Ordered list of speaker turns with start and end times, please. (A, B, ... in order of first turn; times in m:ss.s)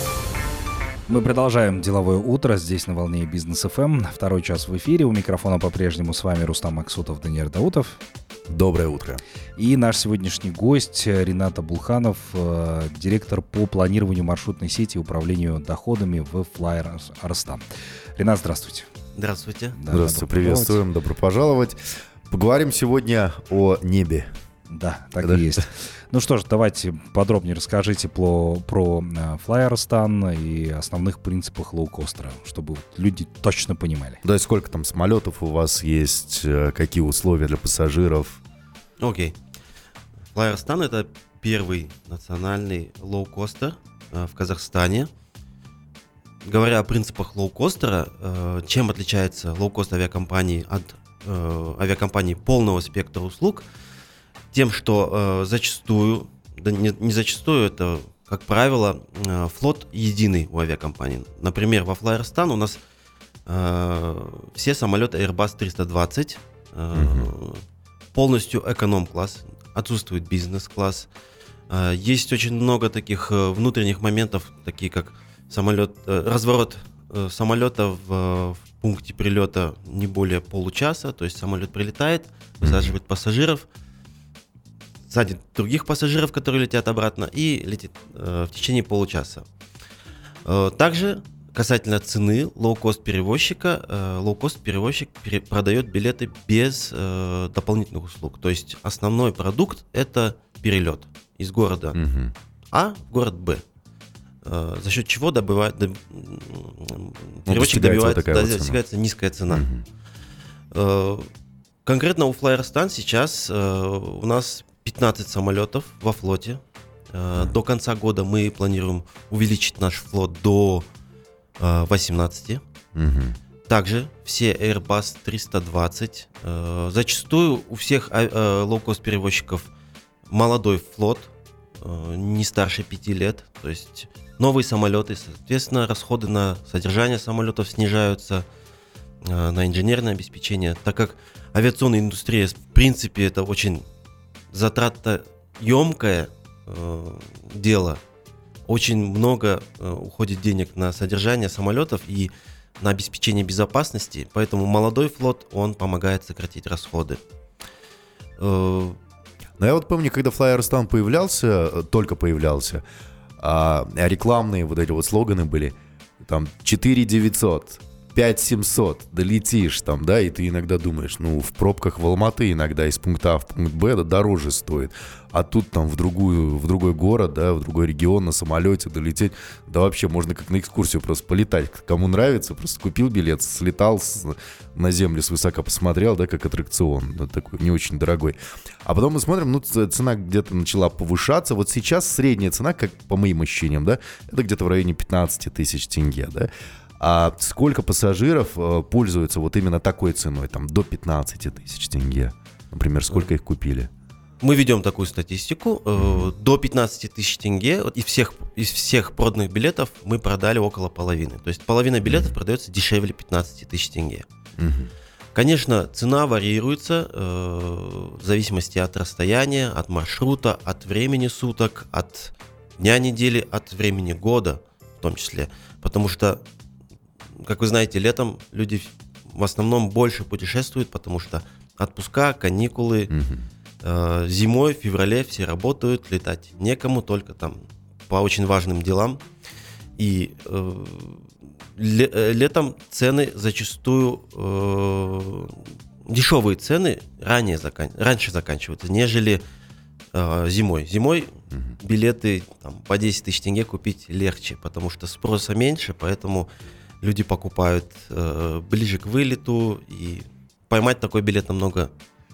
0:01.1-0:08.0 A
0:08.5-0:09.2 B
0:09.6-0:17.6 A
0:18.2-0:18.9 A
0:19.2-0:19.8 C
0:19.8-0:20.8 A
0:19.9-0:24.3 B
0:24.7-0:34.2 A
0:34.2-0:38.4 B
0:39.0-0:39.4 C
0:40.3-0:45.1 C
0:46.4-0:53.7 C
0:54.5-1:02.8 C
1:03.5-1:07.6 C
1:06.9-1:07.3 B
1:08.2-1:11.1 C
1:11.7-1:23.7 C
1:22.6-1:23.0 B
1:25.1-1:29.4 C
1:30.4-1:42.0 C
1:41.9-1:42.3 B
1:42.7-1:43.6 C
1:44.4-1:49.7 C
1:47.5-1:48.8 B
1:49.5-1:49.8 B
1:50.7-1:51.3 C
1:51.8-1:56.6 C
1:57.1-2:00.9 C
2:01.6-2:02.6 C
2:03.0-2:03.4 B
2:03.7-2:09.7 C
2:10.3-2:11.3 C
2:11.8-2:18.5 C
2:19.2-2:23.8 C
2:24.5-2:28.0 C
2:28.7-2:37.2 C
2:38.4-2:39.0 C
2:39.6-2:42.8 B
2:43.4-3:23.9 B
3:24.4-3:34.3 C
3:26.0-3:26.3 B
3:32.0-3:32.3 B
3:34.6-3:34.9 B
3:35.4-3:46.4 C
3:47.4-3:53.1 C
3:53.1-3:53.5 B
3:53.8-3:59.2 C
4:00.0-4:09.4 C
4:10.1-4:16.5 C
4:17.0-4:21.9 C